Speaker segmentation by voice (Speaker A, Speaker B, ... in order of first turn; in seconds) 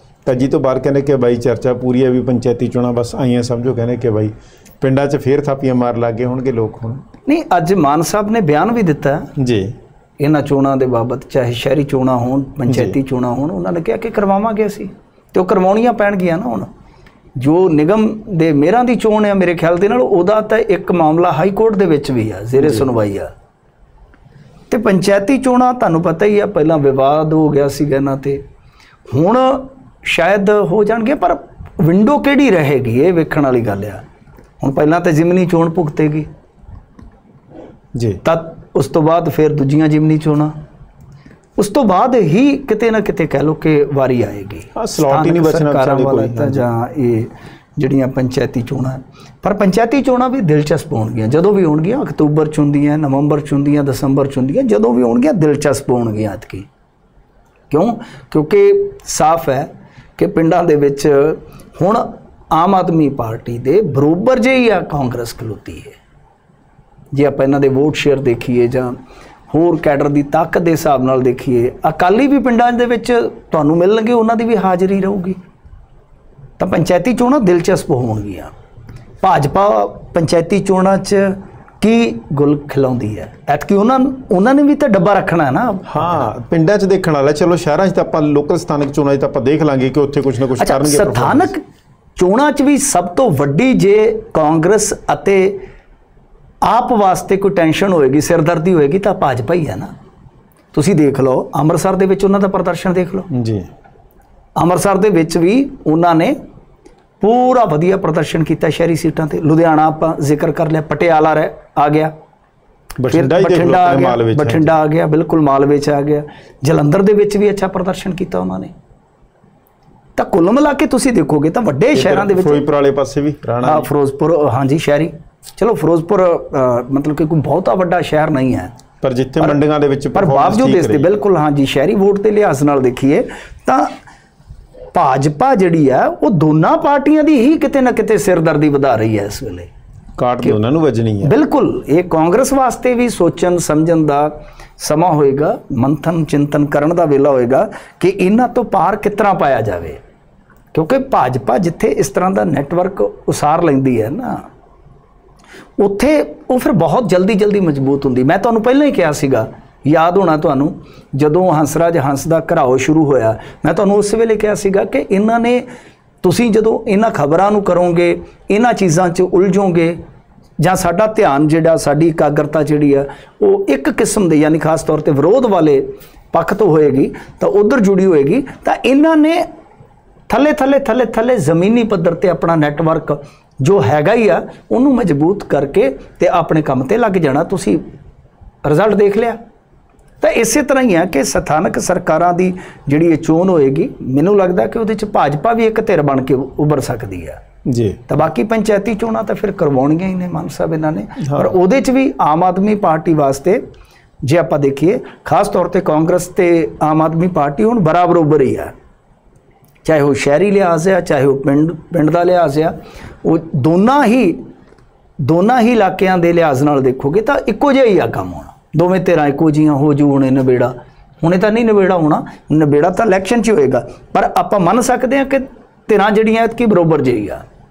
Speaker A: 0.2-7.0, 9.4-9.7, 12.7-12.9, 38.0-38.2, 44.7-46.7, 85.9-91.5, 103.3-103.7, 113.0-114.7, 121.9-123.9, 129.0-131.2, 140.2-141.3, 197.7-198.0
Speaker B: 7.2-9.3, 10.2-16.7, 17.4-23.3, 24.7-28.4, 29.1-34.0, 34.6-36.3, 38.2-40.5, 41.6-56.7, 57.7-66.0, 67.1-69.0, 69.5-75.4, 76.6-78.5, 79.2-86.2, 90.6-91.6, 92.2-95.6, 96.6-99.9, 100.7-103.3, 104.5-106.3, 107.2-112.1, 113.1-118.7, 120.2-122.6, 123.6-128.7, 130.1-133.9, 134.9-139.7, 141.2-150.0, 150.7-154.4, 155.8-165.7, 166.2-170.0, 170.6-179.5, 180.3-187.8, 188.6-189.4, 190.2-197.4, 198.1-203.6, 204.2-208.7, 209.8-214.4, 215.2-227.4